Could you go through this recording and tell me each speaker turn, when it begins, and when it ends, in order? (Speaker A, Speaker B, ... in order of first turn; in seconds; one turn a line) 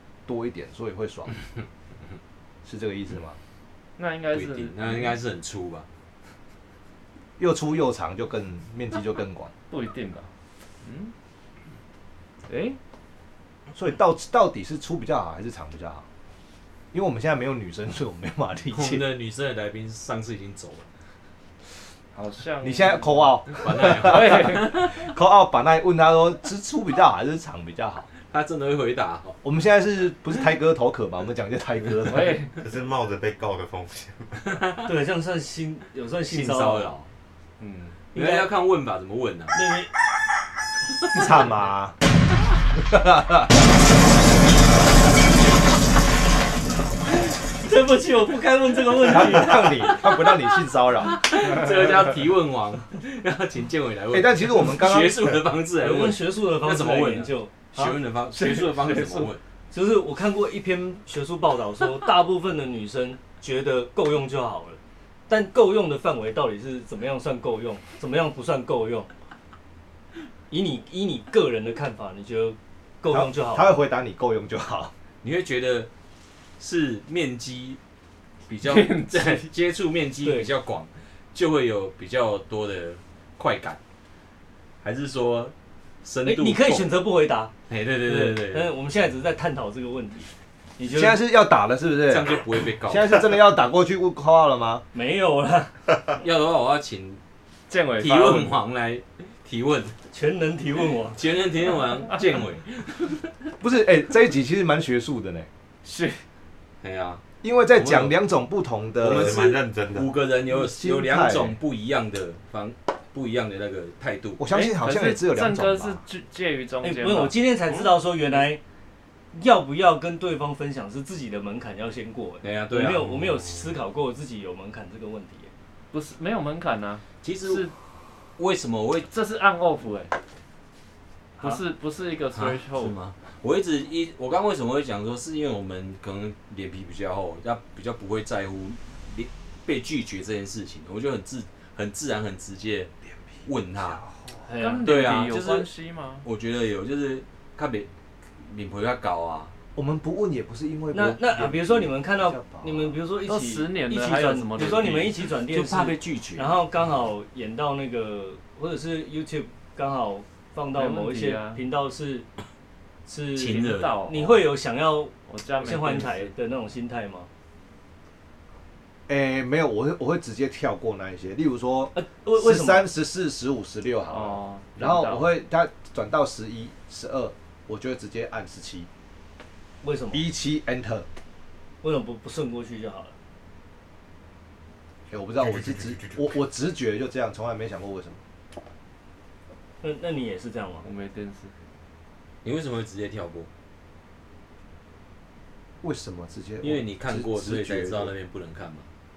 Speaker A: 0.2-1.3
Speaker A: 2.6-3.4
Speaker B: 4.0-5.1
Speaker C: 4.3-5.9
Speaker A: 7.4-9.5
Speaker B: 9.7-10.3
Speaker B: 10.8-11.1
Speaker B: 12.5-12.8
Speaker A: 13.7-16.0
Speaker A: 16.9-19.0
Speaker C: 18.7-20.9
Speaker B: 22.1-24.8
Speaker A: 22.6-28.1
Speaker C: 23.6-24.7
Speaker C: 28.3-29.4
Speaker A: 29.4-32.4
Speaker B: 32.0-32.6
Speaker D: 32.5-34.6
Speaker C: 34.4-34.9
Speaker E: 34.8-36.9
Speaker C: 36.3-37.1
Speaker B: 37.6-38.0
Speaker E: 38.1-38.5
Speaker C: 38.1-39.7
Speaker E: 39.5-39.9
Speaker A: 41.1-41.9
Speaker A: 42.7-43.5
Speaker E: 47.6-49.9
Speaker A: 49.0-51.2
Speaker C: 51.1-59.4
Speaker A: 54.1-55.4
Speaker E: 55.8-58.0
Speaker B: 58.3-59.3
Speaker E: 59.7-69.1
Speaker E: 70.5-73.8
Speaker A: 73.1-74.9
Speaker C: 75.2-75.9
Speaker C: 76.6-77.8
Speaker C: 78.5-83.8
Speaker B: 78.6-79.5
Speaker E: 80.2-80.5
Speaker C: 84.8-86.9
Speaker E: 86.2-87.5
Speaker C: 87.7-88.7
Speaker E: 88.0-91.2
Speaker A: 90.9-92.3
Speaker C: 92.1-93.2
Speaker A: 92.9-94.8
Speaker E: 94.9-95.8
Speaker C: 96.2-97.2
Speaker B: 97.7-98.6
Speaker C: 98.0-99.9
Speaker E: 100.1-101.2
Speaker C: 101.1-103.2
Speaker A: 103.6-105.5
Speaker B: 105.8-106.2
Speaker C: 106.8-107.2
Speaker A: 107.4-109.4
Speaker C: 107.7-108.2
Speaker C: 109.0-114.5
Speaker D: 109.1-110.1
Speaker A: 110.5-111.5
Speaker A: 114.4-116.0
Speaker B: 114.5-117.8
Speaker E: 116.8-118.6
Speaker E: 119.3-125.5
Speaker C: 122.4-123.5
Speaker B: 125.9-127.7
Speaker C: 127.2-127.7
Speaker C: 128.4-129.1
Speaker B: 129.1-130.1
Speaker B: 131.4-132.9
Speaker C: 132.3-142.9
Speaker C: 143.4-144.0
Speaker E: 144.4-145.0
Speaker B: 144.6-146.2
Speaker C: 144.8-145.7
Speaker C: 146.2-149.5
Speaker A: 149.7-153.0
Speaker E: 150.9-162.3
Speaker B: 153.2-155.1
Speaker C: 155.5-156.6
Speaker B: 160.8-161.6
Speaker E: 163.1-167.3
Speaker C: 163.3-164.0
Speaker B: 163.4-164.4
Speaker B: 165.3-166.3
Speaker A: 169.1-178.9
Speaker E: 171.9-172.9
Speaker B: 174.1-175.2
Speaker E: 179.8-180.2
Speaker A: 180.1-181.1
Speaker E: 181.8-183.1
Speaker A: 185.1-188.2
Speaker E: 189.8-190.8
Speaker B: 190.8-191.5
Speaker C: 192.4-193.5
Speaker A: 195.8-198.1
Speaker C: 196.6-198.9